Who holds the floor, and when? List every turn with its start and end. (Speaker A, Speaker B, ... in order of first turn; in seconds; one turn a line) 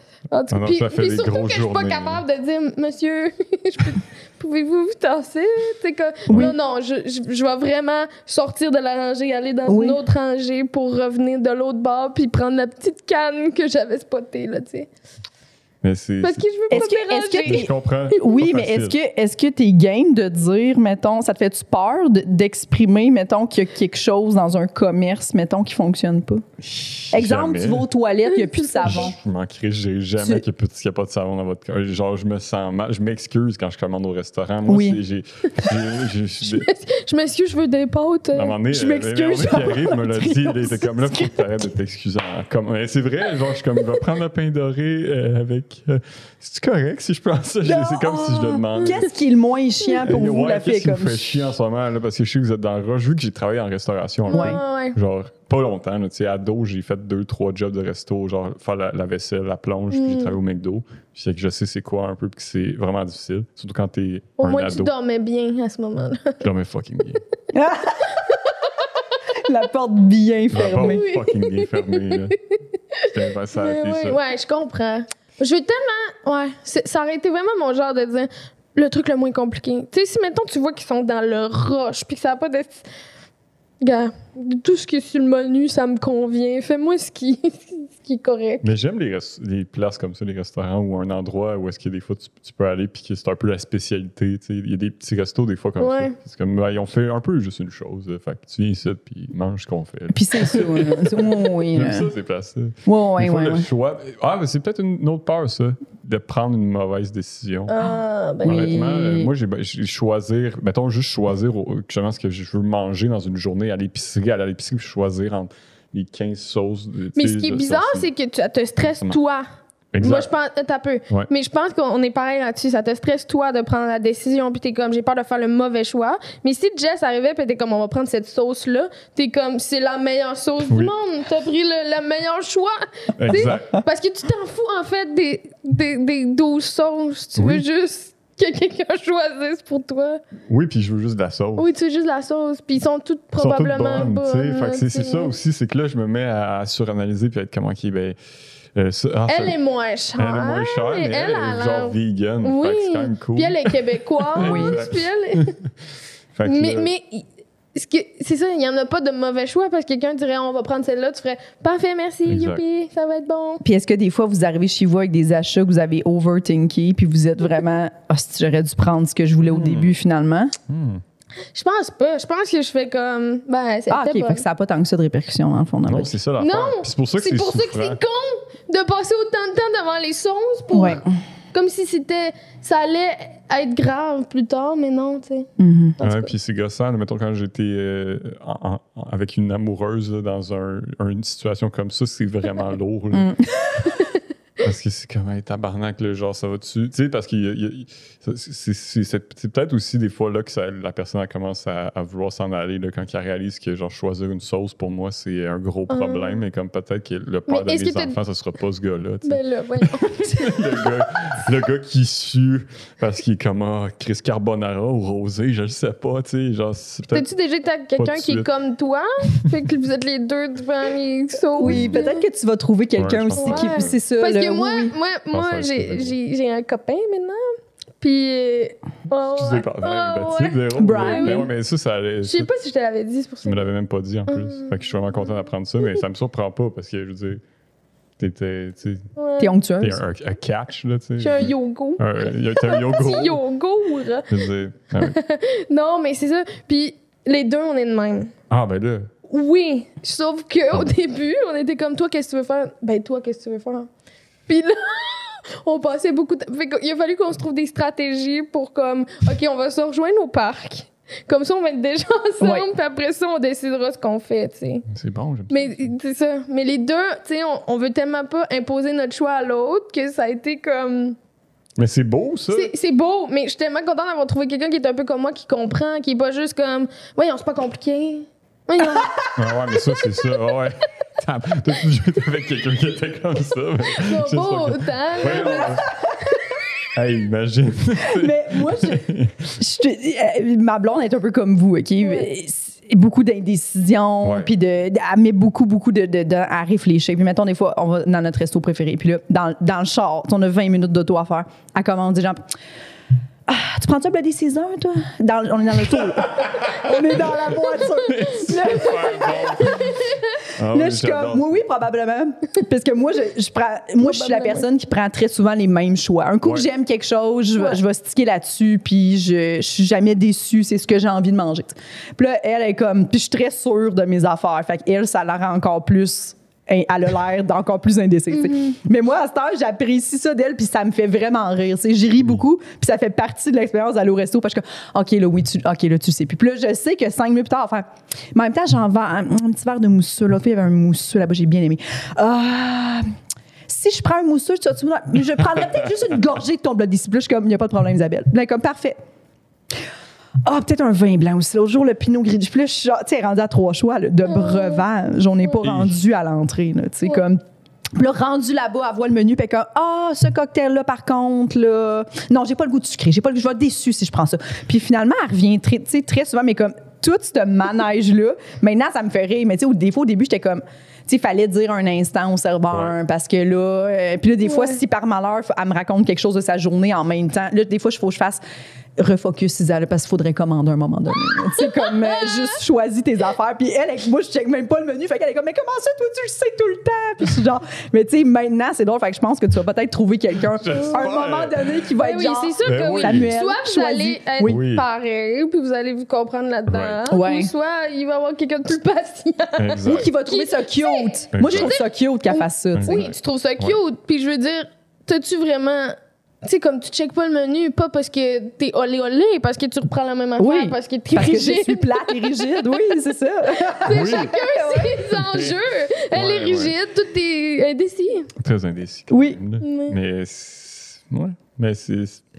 Speaker A: 0.3-14.9
Speaker B: 0.5-2.2
Speaker C: 6.3-6.5
Speaker C: 9.7-10.0
Speaker B: 15.8-16.8
Speaker A: 16.2-17.7
Speaker C: 16.7-26.4
Speaker B: 17.4-18.9
Speaker B: 26.6-27.9
Speaker C: 27.1-29.2
Speaker A: 28.3-29.1
Speaker B: 28.8-36.7
Speaker C: 30.2-30.4
Speaker C: 34.7-35.0
Speaker A: 36.4-38.5
Speaker B: 38.3-49.1
Speaker C: 38.7-41.6
Speaker C: 47.6-51.4
Speaker B: 50.0-64.9
Speaker A: 54.3-55.0
Speaker C: 54.3-54.6
Speaker A: 59.9-60.3
Speaker A: 64.4-66.4
Speaker B: 66.4-67.2
Speaker C: 67.5-68.3
Speaker C: 69.3-71.0
Speaker B: 70.5-72.4
Speaker A: 70.7-72.3
Speaker A: 73.0-82.9
Speaker B: 73.1-74.2
Speaker A: 83.8-88.7
Speaker B: 88.6-107.7
Speaker A: 95.8-96.1
Speaker C: 100.1-102.1
Speaker C: 102.8-103.7
Speaker A: 107.7-108.8
Speaker C: 108.4-109.3
Speaker B: 108.4-118.1
Speaker A: 117.2-119.5
Speaker B: 118.8-119.2
Speaker B: 119.9-120.3
Speaker A: 120.0-140.2
Speaker B: 130.7-130.9
Speaker B: 133.2-133.8
Speaker B: 137.4-137.6
Speaker B: 140.5-141.7
Speaker A: 141.6-145.3
Speaker B: 143.4-148.2
Speaker B: 148.8-149.6
Speaker A: 149.3-155.5
Speaker B: 150.2-153.7
Speaker B: 154.3-155.5
Speaker C: 154.3-154.8
Speaker B: 156.3-156.9
Speaker A: 156.4-163.6
Speaker B: 162.2-162.6
Speaker C: 163.6-170.5
Speaker B: 169.5-169.9
Speaker B: 170.7-171.0
Speaker A: 171.5-174.4
Speaker C: 173.9-176.1
Speaker B: 175.9-178.0
Speaker A: 176.4-181.0
Speaker C: 180.7-181.1
Speaker A: 181.5-185.5
Speaker C: 185.6-186.0
Speaker A: 186.0-186.3
Speaker B: 186.0-193.3
Speaker C: 193.1-193.9
Speaker B: 194.6-217.3
Speaker A: 205.9-206.4
Speaker A: 207.5-208.1
Speaker A: 209.2-210.9
Speaker A: 217.1-222.2
Speaker B: 217.9-218.5
Speaker C: 221.6-224.9
Speaker B: 221.6-222.0
Speaker B: 223.0-224.0
Speaker A: 223.4-227.4
Speaker B: 225.3-226.1
Speaker A: 228.0-231.5
Speaker B: 229.3-232.5
Speaker C: 230.8-231.5
Speaker A: 232.2-233.7
Speaker B: 233.4-237.4
Speaker A: 234.3-234.7
Speaker B: 238.2-239.1
Speaker A: 239.2-239.5
Speaker C: 239.4-240.0
Speaker B: 239.8-243.4
Speaker A: 241.2-244.3
Speaker B: 244.3-245.2
Speaker A: 245.0-248.3
Speaker B: 248.5-249.1
Speaker A: 249.3-253.9
Speaker A: 254.5-264.9
Speaker C: 262.4-262.7
Speaker B: 264.9-265.9
Speaker A: 265.5-271.1
Speaker B: 271.8-272.7
Speaker A: 272.5-279.1
Speaker C: 278.8-279.2
Speaker B: 279.4-285.9
Speaker A: 284.0-285.8
Speaker C: 285.3-285.8
Speaker B: 286.9-289.6
Speaker C: 288.0-302.5
Speaker B: 294.2-294.5
Speaker C: 303.5-309.8
Speaker B: 306.1-307.4
Speaker B: 308.0-311.5
Speaker A: 309.2-310.3
Speaker C: 310.6-343.0
Speaker A: 314.0-314.6
Speaker C: 343.7-349.0
Speaker C: 350.4-357.4
Speaker A: 354.2-354.8
Speaker B: 355.6-356.0
Speaker C: 357.9-378.4
Speaker A: 374.4-374.8
Speaker C: 379.0-394.6
Speaker A: 381.6-382.5
Speaker B: 390.5-391.8
Speaker A: 390.7-391.0
Speaker A: 392.0-412.8
Speaker B: 392.6-393.3
Speaker B: 394.4-394.9
Speaker B: 396.7-397.0
Speaker C: 397.1-397.5
Speaker B: 399.6-400.1
Speaker C: 399.9-403.1
Speaker B: 401.3-401.7
Speaker B: 402.7-403.8
Speaker C: 410.4-415.0
Speaker A: 413.8-418.3
Speaker B: 413.9-414.3
Speaker B: 415.1-415.6
Speaker B: 416.1-416.7
Speaker B: 418.4-422.2
Speaker C: 419.1-419.4
Speaker A: 419.6-420.0